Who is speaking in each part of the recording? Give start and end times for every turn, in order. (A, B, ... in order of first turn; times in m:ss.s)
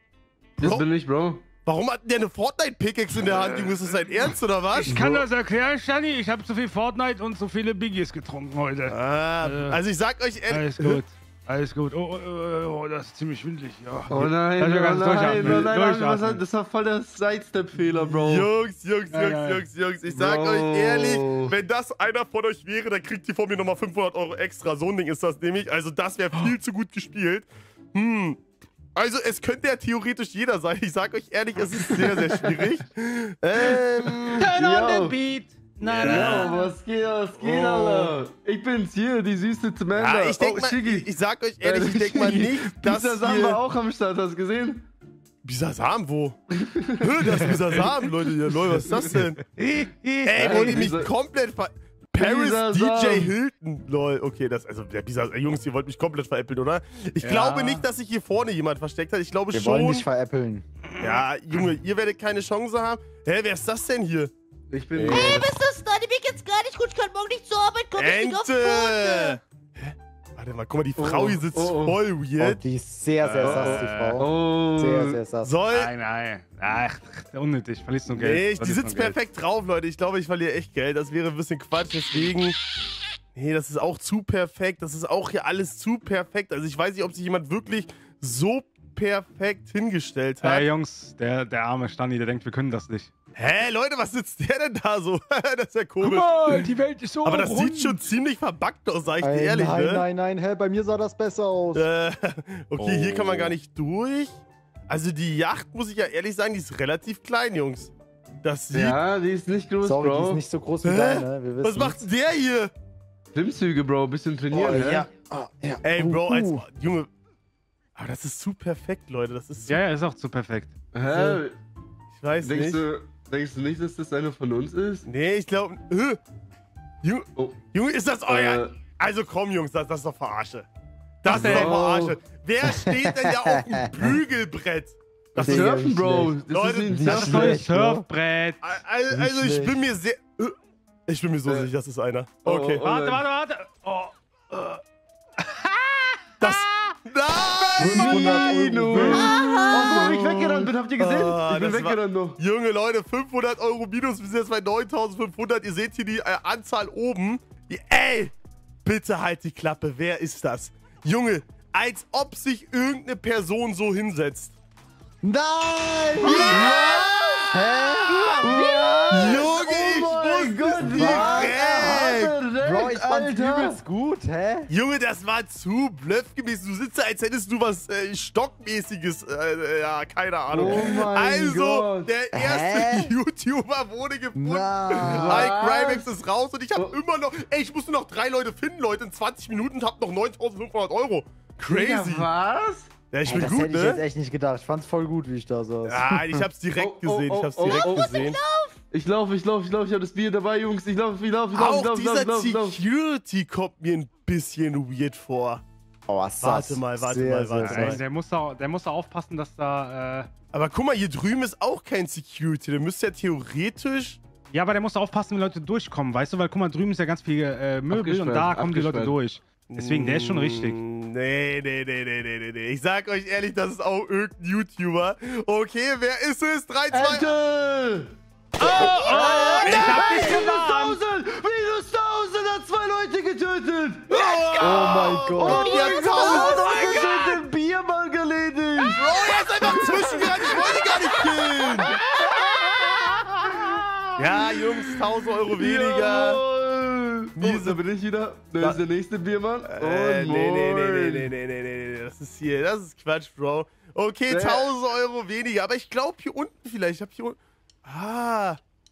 0:00.6-0:00.9 A
0:00.6-0:01.4 B
0:01.6-0:05.1 A
0:04.8-0:09.8 C
0:04.9-0:05.2 B
0:08.9-0:11.0 A
0:10.5-0:16.4 C
0:14.1-0:18.5 B
0:15.3-0:15.7 A
0:17.9-0:28.4 A
0:19.1-0:19.6 C
0:20.1-0:21.6 B
0:29.0-0:34.5 A
0:31.8-0:32.7 B
0:33.7-0:35.2 B
0:34.4-0:36.8 C
0:35.8-0:36.5 A
0:36.0-0:41.1 B
0:37.4-0:38.2 A
0:40.0-0:43.6 A
0:41.6-0:44.9 B
0:45.4-0:46.4 A
0:46.5-0:47.3 B
0:47.0-0:49.4 A
0:49.6-0:50.9 C
0:50.2-1:00.1 A
0:50.4-0:51.1 B
0:52.2-0:53.3 B
0:57.2-0:57.8 C
0:59.5-1:00.6 D
1:01.0-1:04.3 A
1:04.7-1:05.5 B
1:05.0-1:05.5 D
1:05.0-1:05.3 A
1:05.1-1:09.4 E
1:08.0-1:12.6 A
1:11.0-1:12.0 B
1:12.4-1:15.5 D
1:13.2-1:14.2 C
1:13.4-1:15.2 B
1:15.4-1:15.9 A
1:15.7-1:19.2 C
1:18.1-1:22.6 A
1:23.4-1:30.7 A
1:30.4-1:33.1 C
1:33.4-1:36.7 A
1:36.0-1:38.0 C
1:37.2-1:40.1 A
1:39.2-1:41.9 D
1:41.7-1:47.9 A
1:42.8-1:43.6 B
1:48.4-1:49.0 A
1:48.7-1:50.4 B
1:49.8-1:52.0 D
1:50.8-1:52.7 A
1:53.3-1:55.1 B
1:54.5-1:56.6 D
1:55.8-1:57.1 A
1:58.0-1:59.8 A
1:59.7-2:00.7 C
2:00.9-2:01.6 B
2:01.1-2:01.4 D
2:02.2-2:02.8 A
2:02.4-2:05.1 B
2:05.1-2:06.2 A
2:07.0-2:10.7 A
2:08.3-2:08.7 B
2:11.2-2:15.8 A
2:11.3-2:11.8 C
2:11.3-2:12.2 B
2:12.6-2:14.2 D
2:15.4-2:16.4 D
2:15.4-2:17.6 B
2:16.5-2:17.5 A
2:16.9-2:18.1 D
2:17.1-2:18.7 C
2:18.6-2:20.6 A
2:19.1-2:19.9 D
2:21.1-2:22.8 A
2:21.5-2:21.7 B
2:22.4-2:23.2 B
2:22.8-2:24.8 C
2:25.4-2:26.9 C
2:26.4-2:38.3 A
2:27.5-2:28.2 C
2:27.8-2:29.4 D
2:27.8-2:32.4 B
2:29.1-2:30.1 E
2:38.8-2:44.6 A
2:45.2-2:48.6 D
2:46.2-2:47.5 A
2:46.3-2:47.1 E
2:46.4-2:47.6 B
2:48.4-2:53.8 B
2:48.5-2:49.5 E
2:49.1-2:52.4 A
2:50.8-2:54.7 D
2:54.7-3:12.3 A
3:00.5-3:02.1 B
3:00.6-3:00.8 D
3:02.3-3:03.2 D
3:04.4-3:05.6 D
3:05.0-3:06.1 B
3:11.7-3:12.9 B
3:13.1-3:14.0 A
3:13.2-3:16.5 D
3:15.9-3:18.4 A
3:16.8-3:18.1 B
3:17.6-3:18.8 E
3:18.9-3:22.8 B
3:21.5-3:25.6 A
3:26.1-3:28.0 D
3:26.4-3:28.0 A
3:27.6-3:30.3 C
3:30.5-3:34.2 A
3:34.5-3:40.8 C
3:37.9-3:39.2 B
3:39.7-3:47.4 A
3:46.9-3:48.2 B
3:48.6-3:50.5 A
3:48.6-3:51.0 C
3:48.8-4:11.3 B
3:48.8-3:49.7 E
3:54.1-3:56.8 A
3:54.1-3:57.0 E
3:54.6-3:55.8 D
3:56.5-3:57.4 C
3:58.9-4:02.0 A
4:02.3-4:03.2 E
4:04.2-4:06.4 A
4:07.4-4:07.8 A
4:09.6-4:18.6 A
4:14.3-4:14.7 B